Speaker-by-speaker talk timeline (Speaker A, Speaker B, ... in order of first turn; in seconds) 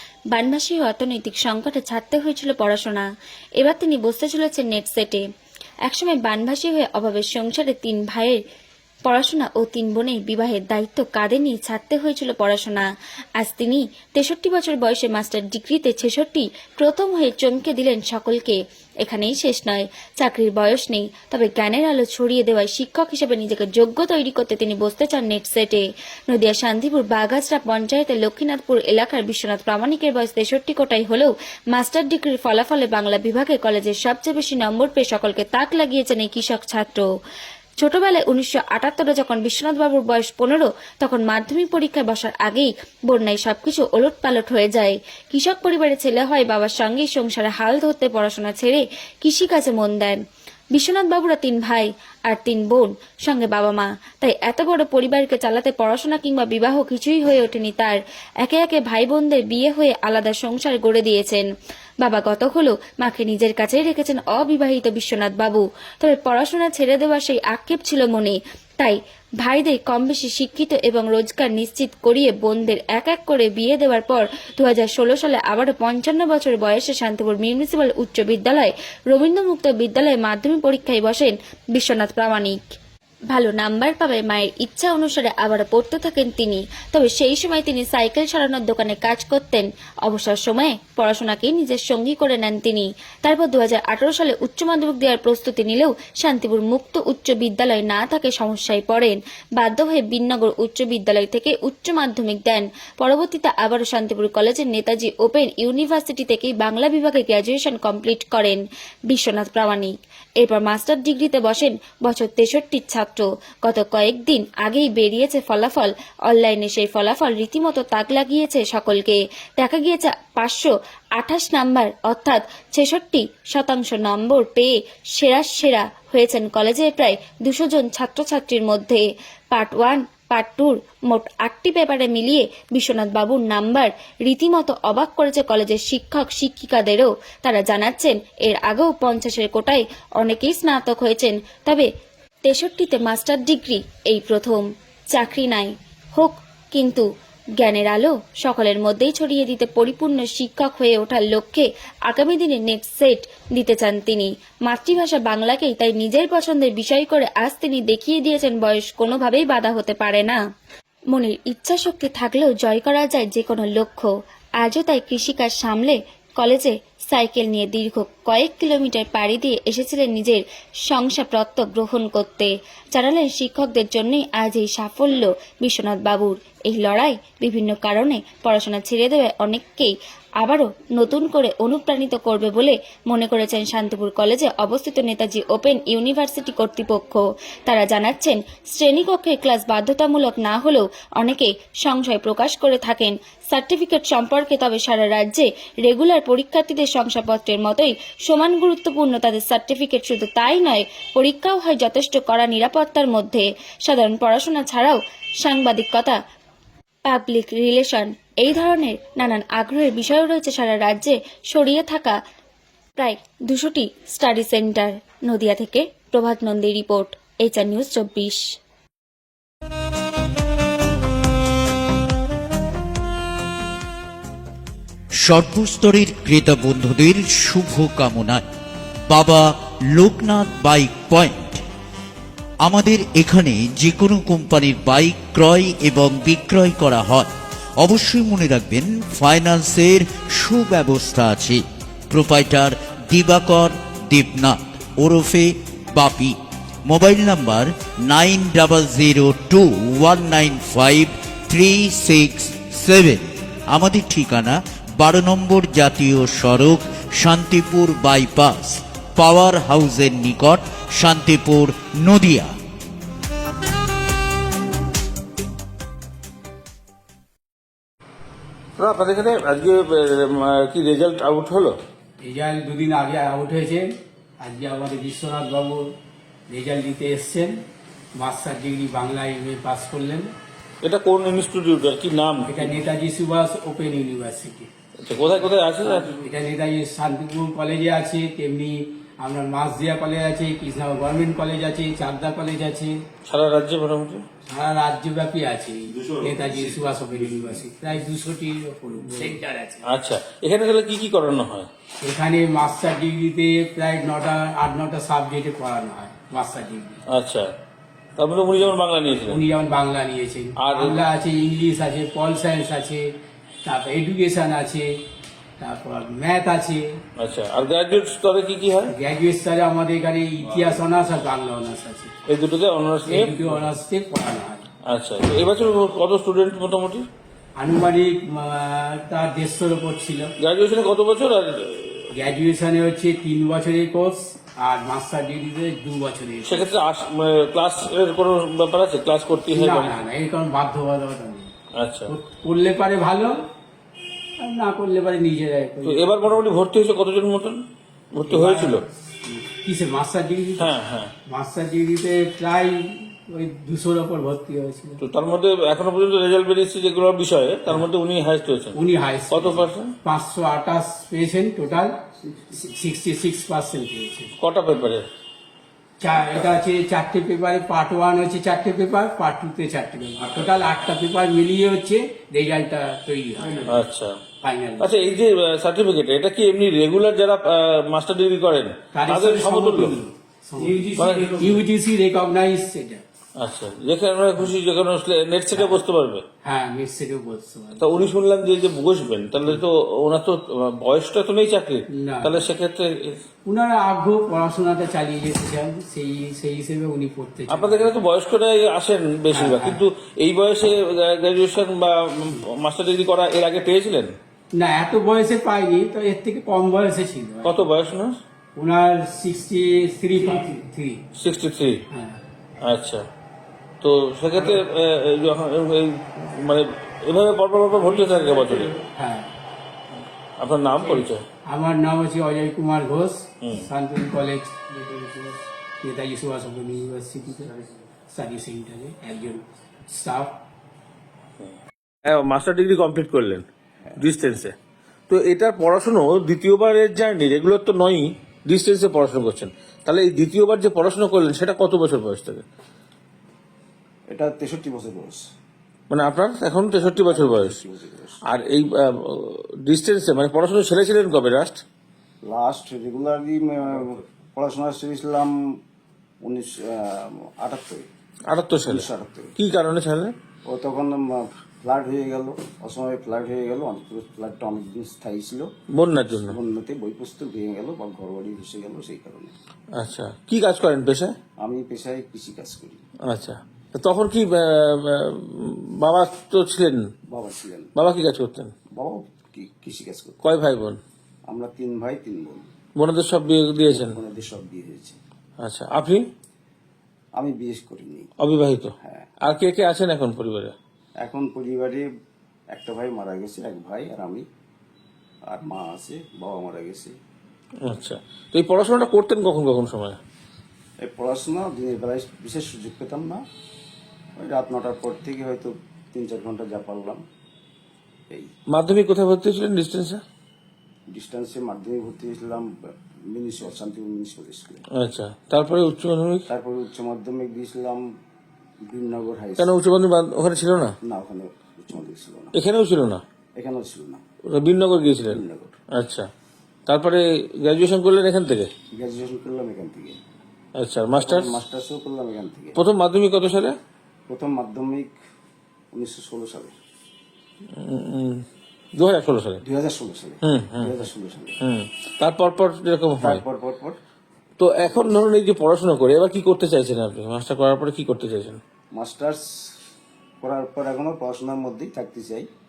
Speaker A: 0.3-3.1, 3.6-5.2, 5.8-8.4, 9.0-12.8, 13.4-37.1, 37.8-50.2, 50.7-61.5, 62.0-82.6, 83.3-141.8, 142.4-147.0, 147.6-160.4, 161.1-206.2, 207.1-212.2, 212.9-218.4
Speaker B: 225.2-228.4, 229.1-231.6, 232.6-246.3, 246.9-262.5
Speaker C: 268.8-271.7, 280.8-282.7, 285.0-286.2, 293.3-294.2, 296.0-296.8, 299.9-301.7, 307.1-307.5, 308.2-309.4, 310.6-311.0, 317.2-318.9, 322.3-323.6, 324.9-327.1, 330.4-332.2, 336.4-339.9, 341.8-342.1, 345.8-347.6, 348.1-348.8, 350.6-351.1, 355.0-358.8, 359.3-359.9, 364.4-365.0, 373.6-374.2, 374.8-380.0, 380.9-381.6, 383.4-386.2, 387.8-393.2, 397.5-404.1, 407.4-408.2, 411.2-411.8, 412.6-413.0, 413.8-418.8, 420.4-421.2, 423.4-423.7, 432.1-433.4, 434.0-434.5, 435.1-442.4, 445.9-447.6, 448.3-451.6, 458.3-460.1, 465.7-466.4, 469.8-471.1, 473.1-476.8, 477.8-478.5, 480.2-480.8, 482.8-484.0, 485.4-486.0, 488.2-488.7, 489.2-490.5, 497.6-500.0, 508.5-510.0, 514.8-516.3, 519.4-520.7, 522.3-523.0, 524.3-525.2, 525.7-526.1, 526.7-528.5, 530.6-531.4, 532.5-533.5, 537.6-538.2, 538.8-539.4, 540.2-540.8, 541.4-543.2, 544.4-548.4
Speaker D: 272.2-275.9, 276.5-277.6, 278.1-280.3, 282.5-284.7, 286.1-293.0, 294.5-299.9, 302.0-307.0, 309.3-314.9, 315.6-317.0, 318.9-322.1, 323.1-324.7, 327.6-330.3, 332.1-336.7, 339.5-341.5, 342.1-343.4, 344.4-346.2, 348.3-350.7, 351.2-355.0, 358.7-364.3, 366.0-373.8, 374.4-374.9, 378.9-383.0, 386.4-388.0, 391.9-392.5, 393.4-397.9, 399.3-399.8, 404.5-407.6, 408.5-411.0, 411.9-412.2, 419.0-419.3, 421.4-427.6, 428.1-430.4
Speaker E: 444.1-445.2, 446.8-448.2, 452.2-455.3, 456.2-457.9, 458.6-459.3, 460.5-465.5, 466.3-469.3, 471.4-472.8, 477.1-477.7, 478.7-480.2, 481.3-482.5, 483.7-485.0, 487.1-488.1, 488.8-489.1, 491.0-491.9, 492.5-494.2, 495.3-496.9, 500.8-503.2, 504.2-507.0, 510.9-514.6, 516.3-517.9, 518.6-519.5, 520.8-522.3, 523.4-524.0, 525.1-525.5, 528.8-530.0, 530.9-532.6, 534.1-534.9, 535.7-536.5, 539.4-541.4, 543.0-543.8, 548.7-549.6, 550.2-552.3